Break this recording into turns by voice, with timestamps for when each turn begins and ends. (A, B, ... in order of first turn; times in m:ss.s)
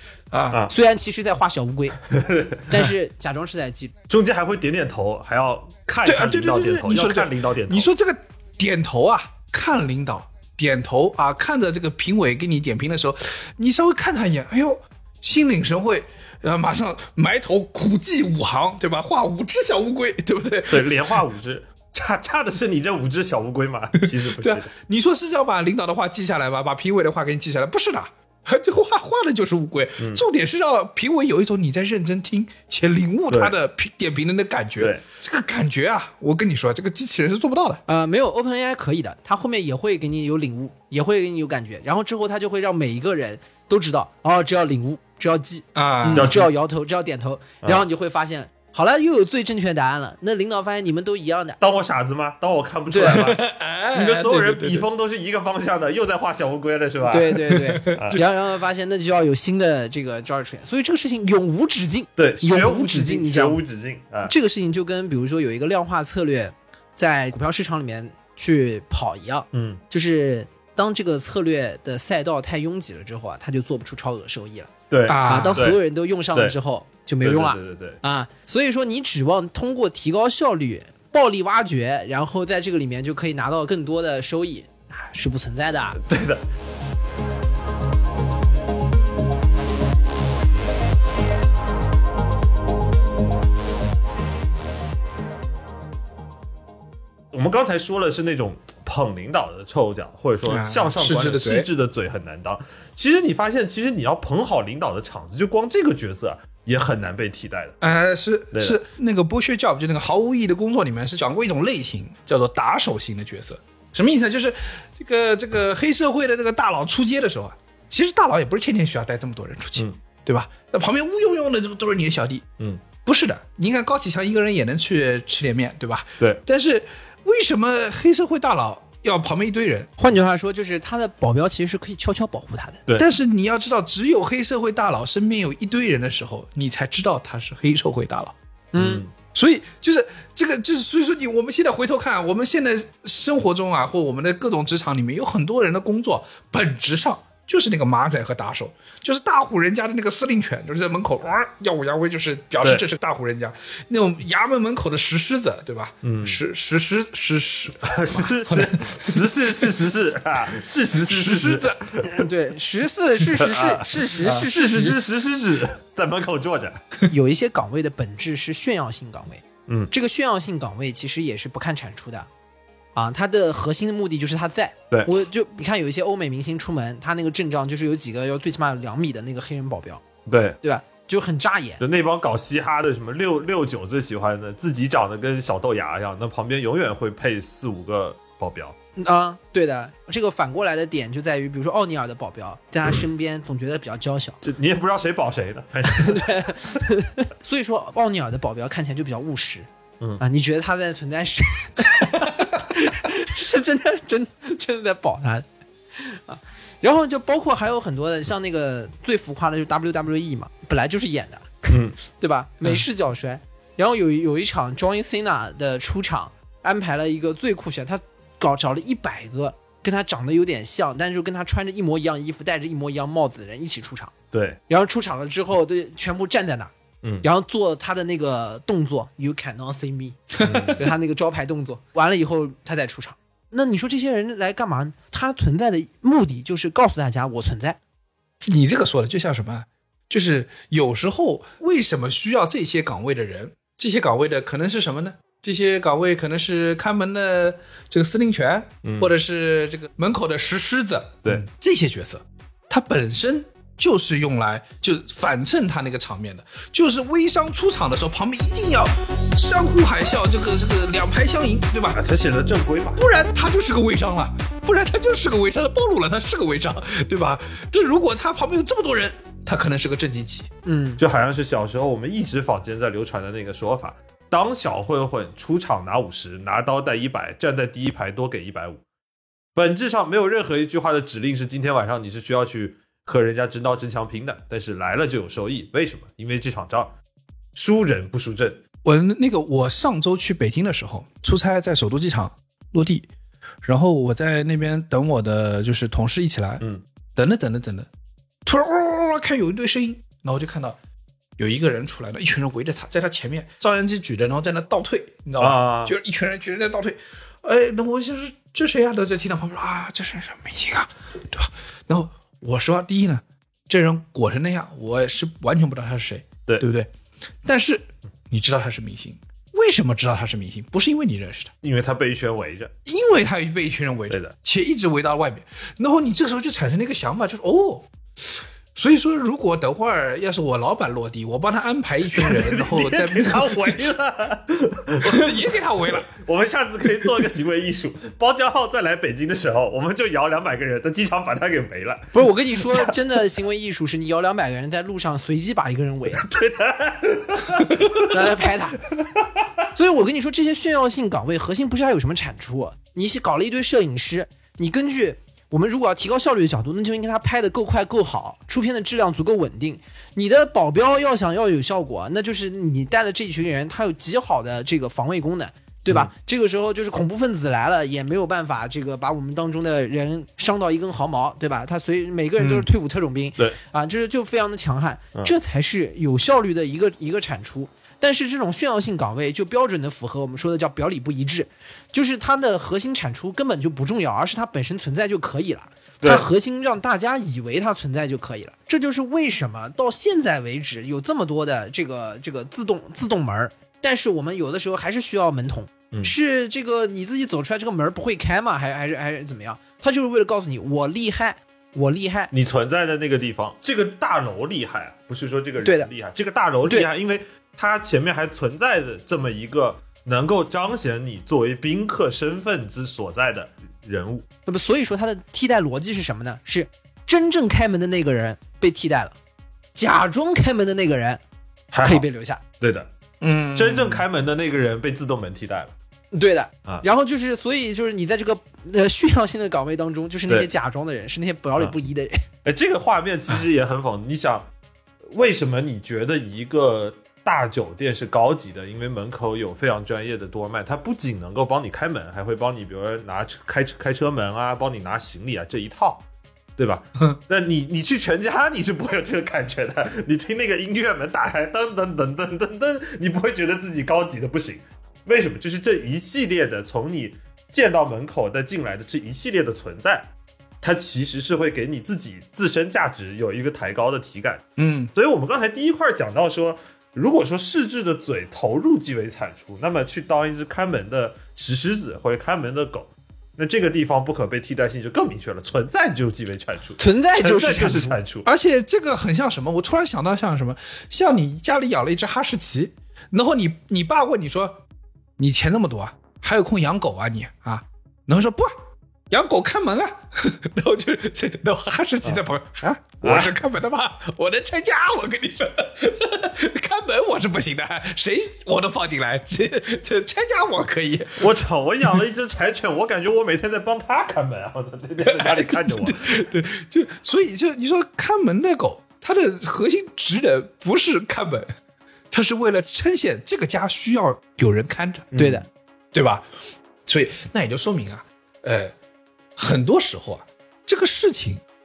0:00.3-0:00.6 A
0:00.7-0:02.0 B
0:02.1-0:02.8 C
0:02.7-0:03.9 B
0:04.1-0:07.9 C
0:06.0-0:21.1 A
0:20.7-0:24.7 C
0:24.0-0:37.8 A
0:30.0-0:30.2 C
0:33.3-0:33.5 C
0:37.9-0:51.6 B
0:45.8-0:46.4 A
0:46.1-0:46.5 C
0:51.6-0:58.2 C
0:52.9-0:53.2 B
0:53.0-0:54.8 A
0:57.1-1:03.6 B
0:57.4-0:58.2 A
1:02.2-1:04.3 C
1:04.2-1:26.0 B
1:09.5-1:09.8 C
1:14.9-1:15.8 C
1:15.1-1:15.7 A
1:17.2-1:18.0 C
1:26.0-1:26.4 C
1:37.3-1:47.8 C
1:40.5-1:41.7 A
1:47.8-2:02.5 A
1:48.5-1:48.8 C
2:03.0-2:09.9 A
2:10.0-2:12.8 B
2:13.0-2:18.3 A
2:18.7-2:19.0 B
2:18.8-2:19.1 C
2:19.3-2:39.3 A
2:36.0-2:36.4 C
2:37.8-2:42.2 C
2:41.0-2:41.8 A
2:42.1-2:45.0 B
2:43.3-2:46.8 C
2:44.2-2:44.9 A
2:47.1-2:52.3 B
2:52.9-3:00.0 B
3:00.2-3:00.6 C
3:00.6-3:01.8 B
3:01.8-3:08.8 C
3:09.0-3:14.4 B
3:14.4-3:16.6 C
3:15.9-3:19.7 B
3:20.2-3:44.1 B
3:31.7-3:32.0 C
3:44.3-3:44.6 C
3:44.7-3:57.8 B
3:50.4-3:50.8 C
3:58.4-4:22.0 A
4:08.8-4:09.1 C
4:21.9-4:23.0 C
4:23.0-4:30.5 A
4:30.6-4:31.0 B
4:31.0-4:38.8 C
4:39.5-4:46.9 C
4:47.5-4:48.6 C
4:48.8-4:53.1 A
4:53.6-4:56.6 A
4:57.2-4:57.9 A
4:58.4-5:00.8 A
5:01.4-5:16.9 A
5:05.4-5:06.0 C
5:17.4-5:21.5 A
5:21.6-5:22.7 C
5:22.8-5:27.9 A
5:28.7-5:33.8 A
5:32.1-5:42.9 C
5:35.0-5:36.1 A
5:42.1-5:46.2 B
5:46.2-5:48.2 C
5:47.9-5:48.8 B
5:49.0-5:49.5 C
5:49.7-6:42.3 B
6:42.3-6:54.2 C
6:45.6-6:45.9 B
6:54.4-6:59.2 B
6:59.7-7:01.2 B
7:01.7-7:02.1 C
7:01.8-7:02.4 B
7:02.6-7:02.9 C
7:03.2-7:04.0 A
7:03.5-7:05.7 C
7:06.1-7:12.2 B
7:12.4-7:14.5 C
7:15.1-7:26.0 C
7:26.6-7:58.3 C
7:44.6-7:44.9 A
7:56.8-7:58.0 B
7:58.2-8:04.6 A
8:05.2-8:08.5 A
8:09.1-8:21.3 A
8:13.0-8:13.3 C
8:21.2-8:26.1 C
8:25.0-8:31.5 A
8:32.1-8:35.3 A
8:35.1-8:35.4 C
8:35.2-8:35.4 B
8:35.9-8:36.2 A
8:36.8-8:38.7 A
8:39.4-8:41.4 A